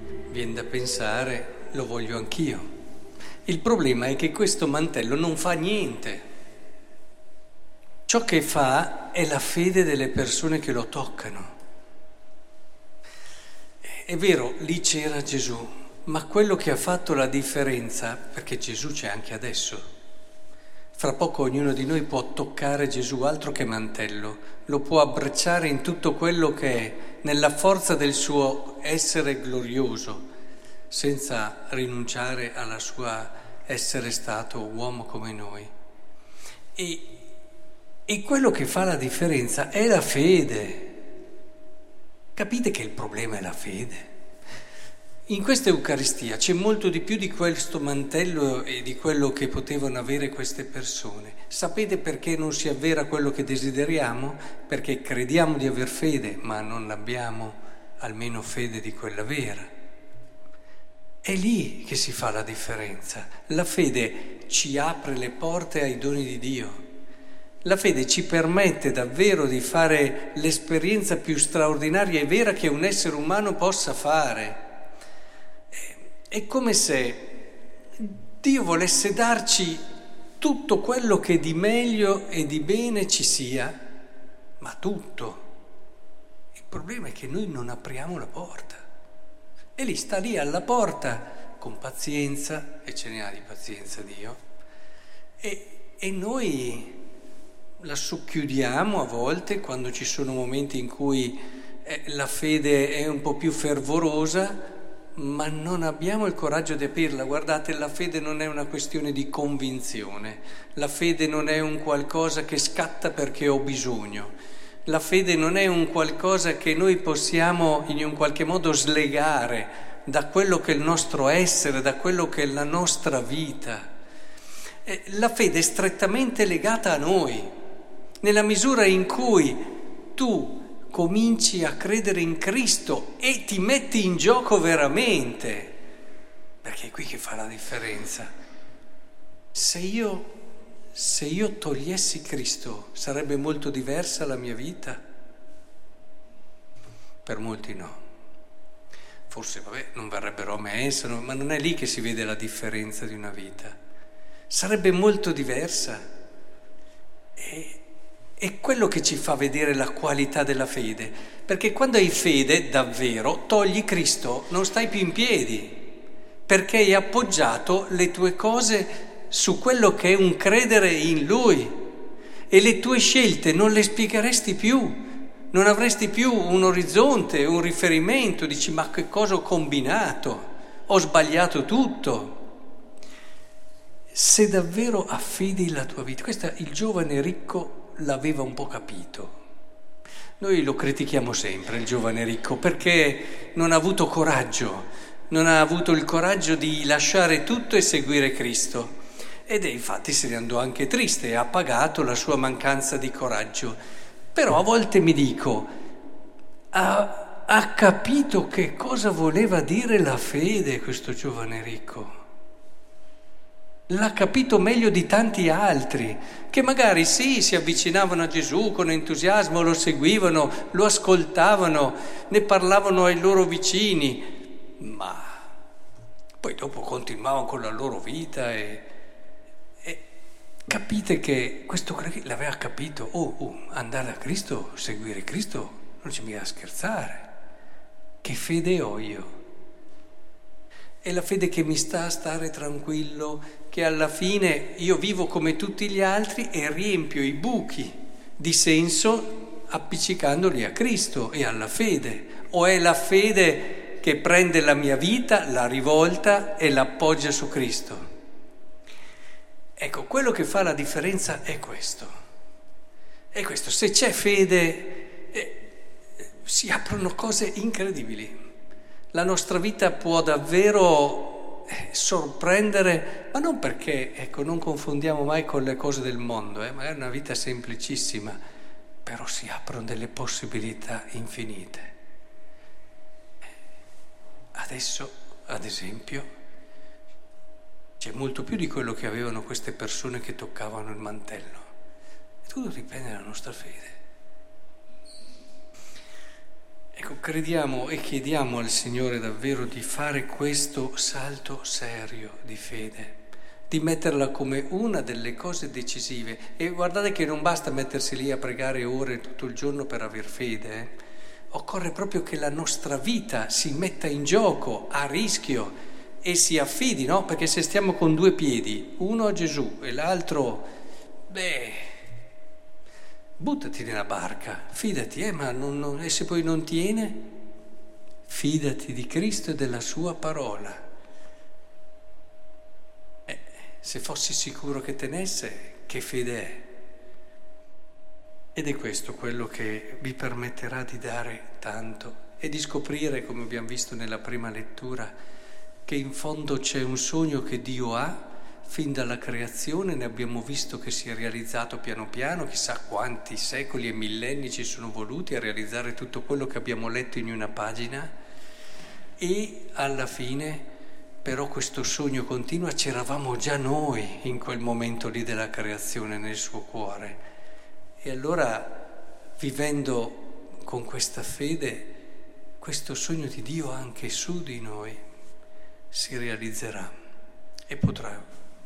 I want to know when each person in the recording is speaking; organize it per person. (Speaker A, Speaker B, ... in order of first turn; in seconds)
Speaker A: 0.3-2.7, 3.4-6.2, 8.1-11.5, 13.8-19.8, 20.9-30.2, 30.9-35.7, 36.8-37.2, 38.1-41.0, 42.3-44.1, 45.3-59.7, 61.2-66.8, 67.6-74.7, 75.7-77.5, 78.4-79.8, 80.4-83.8, 84.6-85.5, 86.5-88.8, 89.8-94.4, 95.4-97.0, 97.8-114.3, 114.8-123.9, 124.8-127.5, 128.2-135.8, 136.6-138.3, 139.5-140.3, 140.9-145.0, 147.2-148.0, 149.3-153.8, 154.5-156.0, 157.3-157.8, 158.4-171.9, 172.5-182.5, 184.1-189.4, 190.4-203.8, 204.3-205.7, 206.7-212.1, 213.9-225.4, 226.4-228.9, 230.7-237.3, 238.2-239.4, 241.0-258.1, 259.8-262.1, 263.3-265.7, 266.4-268.4, 269.1-278.4, 279.0-281.9, 284.5-286.3, 288.0-291.6, 292.4-294.0, 296.9-303.2, 303.7-311.0, 311.5-320.7, 321.3-322.0, 323.4-327.3, 328.3-330.8, 333.3-336.7, 338.5-345.1, 345.9-358.1, 359.2-360.6, 361.2-367.2, 368.0-372.0, 372.6-375.0, 375.9-376.9, 377.7-378.2